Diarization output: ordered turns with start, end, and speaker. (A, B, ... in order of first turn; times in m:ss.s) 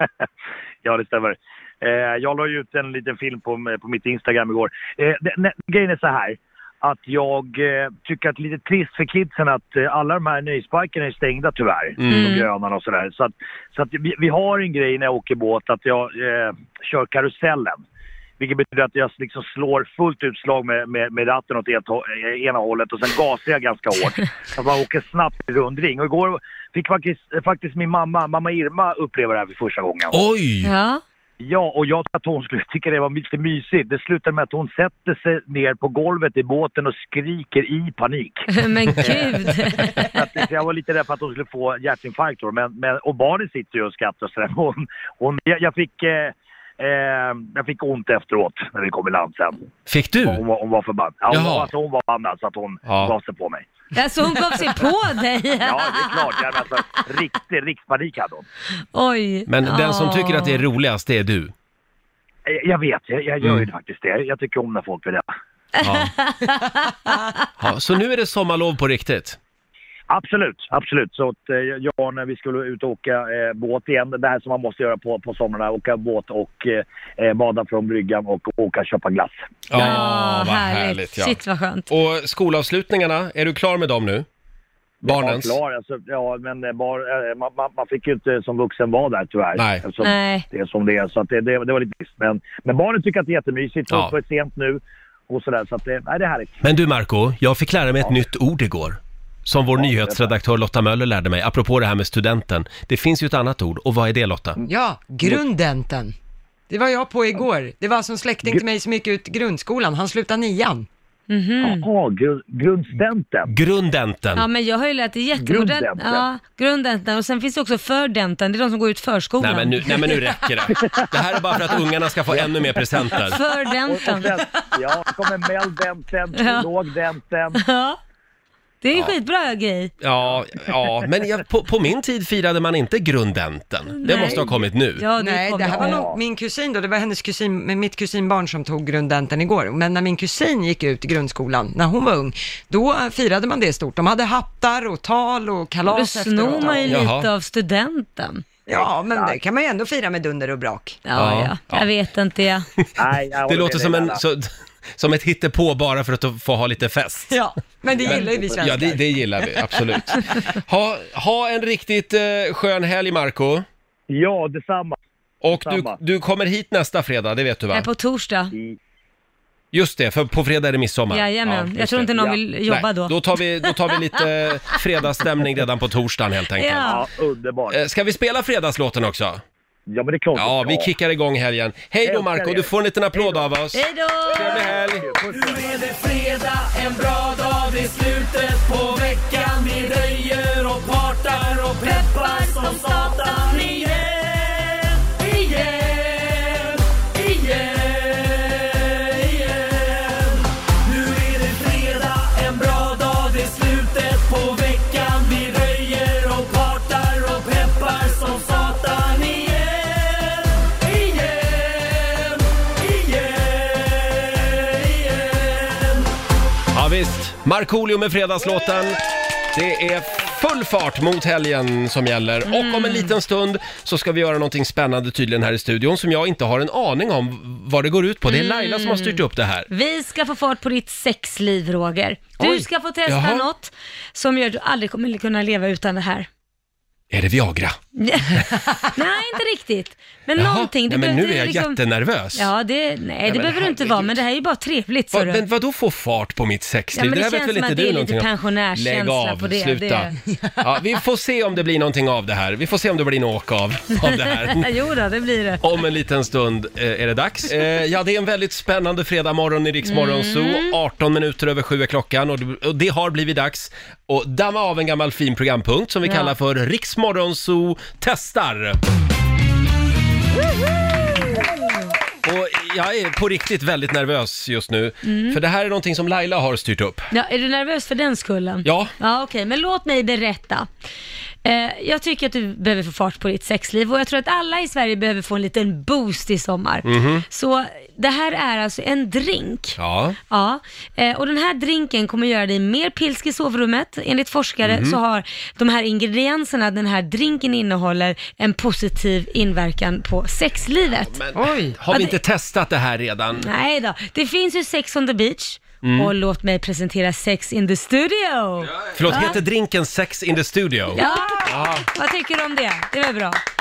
0:00.8-0:17.8 A
0:12.0-0:12.3 B
0:12.1-0:12.5 C
0:18.4-0:30.2 A
0:30.1-0:30.7 B
0:30.6-0:31.0 C
0:31.4-0:38.4 A
0:38.5-0:39.9 C
0:39.0-0:49.6 A
0:49.9-0:50.4 B
0:50.2-0:53.7 A
0:51.3-0:51.7 B
0:52.9-0:53.1 B
0:53.9-0:56.4 C
0:55.6-0:58.4 A
0:59.0-1:00.6 C
0:59.5-1:01.5 B
1:02.5-1:05.3 A
1:03.4-1:03.7 B
1:05.8-1:06.1 B
1:05.8-1:07.1 C
1:07.6-1:09.4 B
1:10.1-1:19.4 A
1:19.7-1:21.4 B
1:19.7-1:21.9 C
1:21.9-1:24.3 B
1:25.0-1:36.6 A
1:25.1-1:25.6 B
1:29.6-1:29.8 B
1:30.0-1:30.5 C
1:36.6-1:44.6 B
1:39.8-1:40.3 A
1:44.6-1:46.1 D
1:46.7-1:50.9 D
1:51.3-1:51.8 C
1:51.6-1:53.5 A
1:53.5-1:54.5 B
1:54.4-2:00.2 C
1:55.4-1:56.2 A
1:59.4-2:03.4 B
2:03.3-2:04.4 C
2:03.9-2:07.6 A
2:06.3-2:06.7 C
2:07.6-2:08.0 C
2:08.8-2:09.9 C
2:10.0-2:15.0 B
2:14.0-2:16.0 C
2:14.1-2:14.5 A
2:15.2-2:27.0 D
2:15.7-2:16.2 A
2:25.9-2:28.4 C
2:26.6-2:26.9 A
2:26.8-2:27.3 B
2:28.7-2:31.0 D
2:28.7-2:29.4 A
2:31.1-2:32.7 C
2:31.2-2:31.9 B
2:33.0-2:34.2 A
2:33.5-2:37.3 B
2:37.3-2:39.0 D
2:37.9-2:38.8 A
2:38.0-2:43.6 B
2:44.1-2:45.0 A
2:45.4-2:47.9 B
2:45.5-2:46.0 A
2:47.7-2:48.5 C
2:49.7-2:56.9 B
2:51.1-2:53.7 C
2:56.6-2:57.0 C
2:56.8-2:57.8 A
2:57.7-2:59.4 B
2:59.9-3:00.9 A
3:00.4-3:03.8 B
3:02.0-3:03.5 A
3:03.7-3:04.7 C
3:04.3-3:05.1 B
3:04.3-3:05.7 A
3:05.3-3:36.1 E
3:11.9-3:13.4 C
3:36.7-3:39.0 B
3:39.5-3:49.7 B
3:42.5-3:43.1 C
3:48.3-3:56.3 C
3:52.4-3:52.6 D
3:53.1-3:53.5 B
3:57.1-3:57.8 B
3:58.0-4:01.8 C
4:00.4-4:02.5 B
4:02.4-4:05.4 C
4:03.2-4:04.2 B
4:05.1-4:14.7 B
4:06.9-4:10.2 C
4:14.5-4:15.6 C
4:15.6-4:28.8 B
4:19.8-4:20.8 C
4:26.1-4:26.3 C
4:32.2-4:37.1 B
4:35.0-4:35.4 C
4:37.1-4:40.7 C
4:38.6-4:38.9 B
4:41.4-4:49.8 C
4:46.8-4:47.3 B
4:49.8-4:50.2 B
4:50.3-5:01.2 C
4:54.6-4:55.0 B
5:01.1-5:03.5 B
5:01.4-5:01.8 D
5:03.4-5:09.4 C
5:05.8-5:06.1 B
5:09.0-5:11.8 B
5:11.0-5:13.4 C
5:11.0-5:11.6 D